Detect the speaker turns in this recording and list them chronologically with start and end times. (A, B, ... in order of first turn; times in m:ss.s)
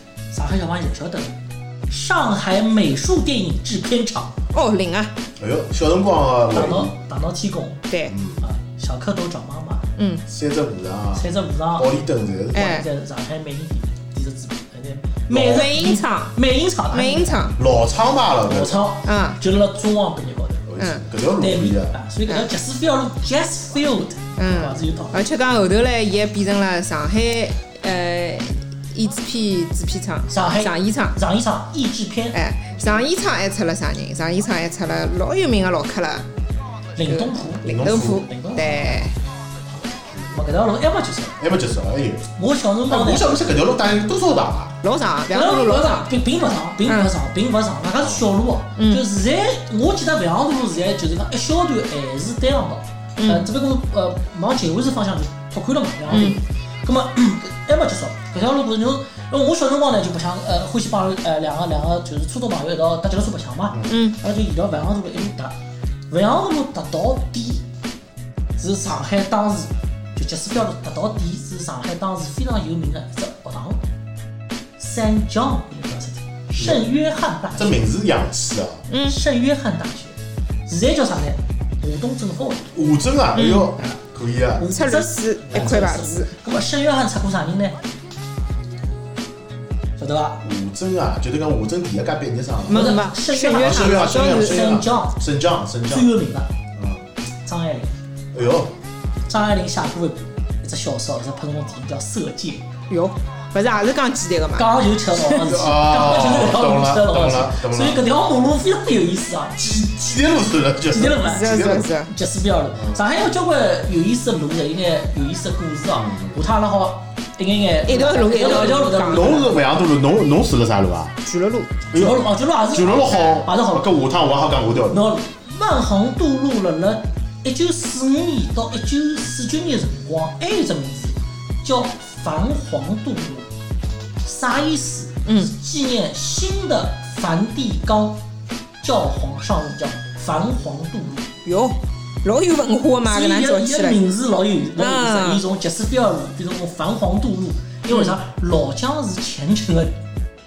0:00.3-0:04.4 A
0:04.5-0:05.2 B
0:05.4-0:06.9 C
0:06.5-0:07.8 A
0:07.9-0:08.2 B
0:08.1-0:08.4 C
0:08.4-0:09.9 A
0:10.0-0:10.2 B
0:10.3-0:12.8 C
0:11.2-0:11.9 A
0:12.6-0:12.9 B
0:12.6-0:17.5 A
0:15.3-0:15.7 C
0:15.3-0:16.3 B
0:16.9-0:17.6 B
0:17.6-0:18.9 C
0:18.5-0:20.7 A
0:19.0-0:19.4 B
0:20.6-0:22.0 C
0:21.4-0:25.2 A
0:24.4-0:31.2 B
0:30.3-0:32.4 A
0:32.3-0:36.3 B
0:37.0-0:38.9 A
0:37.1-0:39.2 B
0:37.6-0:39.0 C
0:40.1-0:40.5 C
0:40.3-0:41.4 A
0:41.4-0:42.3 C
0:42.4-0:43.4 A
0:42.9-0:44.8 C
0:44.8-0:46.1 B
0:45.3-1:05.6 A
0:46.9-0:47.1 B
0:48.8-0:49.0 B
0:53.2-0:53.5 B
0:56.1-0:56.4 B
1:03.7-1:04.0 C
1:03.9-1:04.2 B
1:06.1-1:07.7 A
1:08.6-1:13.8 A
1:14.8-1:17.8 A
1:16.6-1:16.9 C
1:17.6-1:18.9 C
1:18.9-1:19.2 B
1:19.0-1:22.7 A
1:22.7-1:24.7 C
1:23.4-1:23.7 B
1:24.6-1:27.8 A
1:24.7-1:26.3 B
1:30.0-1:30.4 A
1:30.4-1:33.0 C
1:32.7-1:34.6 B
1:32.7-1:35.2 A
1:33.5-1:36.1 C
1:35.9-1:36.5 A
1:36.8-1:37.1 C
1:37.4-1:37.9 A
1:38.3-1:38.8 C
1:39.3-1:42.7 A
1:42.9-1:44.7 B
1:44.6-1:49.6 A
1:45.3-1:48.0 C
1:49.6-1:51.9 C
1:50.9-1:59.6 A
1:51.2-1:52.1 B
1:52.8-1:53.0 C
1:55.9-1:56.4 C
1:57.9-1:59.5 B
1:59.0-2:01.2 C
2:01.2-2:01.8 B
2:01.9-2:05.0 C
2:02.0-2:03.9 A
2:03.1-2:03.4 B
2:04.9-2:13.5 A
2:14.2-2:18.2 A
2:15.3-2:15.5 B
2:18.8-2:21.3 A
2:21.4-2:24.0 B
2:23.1-2:30.0 A
2:24.8-2:25.4 B
2:27.9-2:28.2 B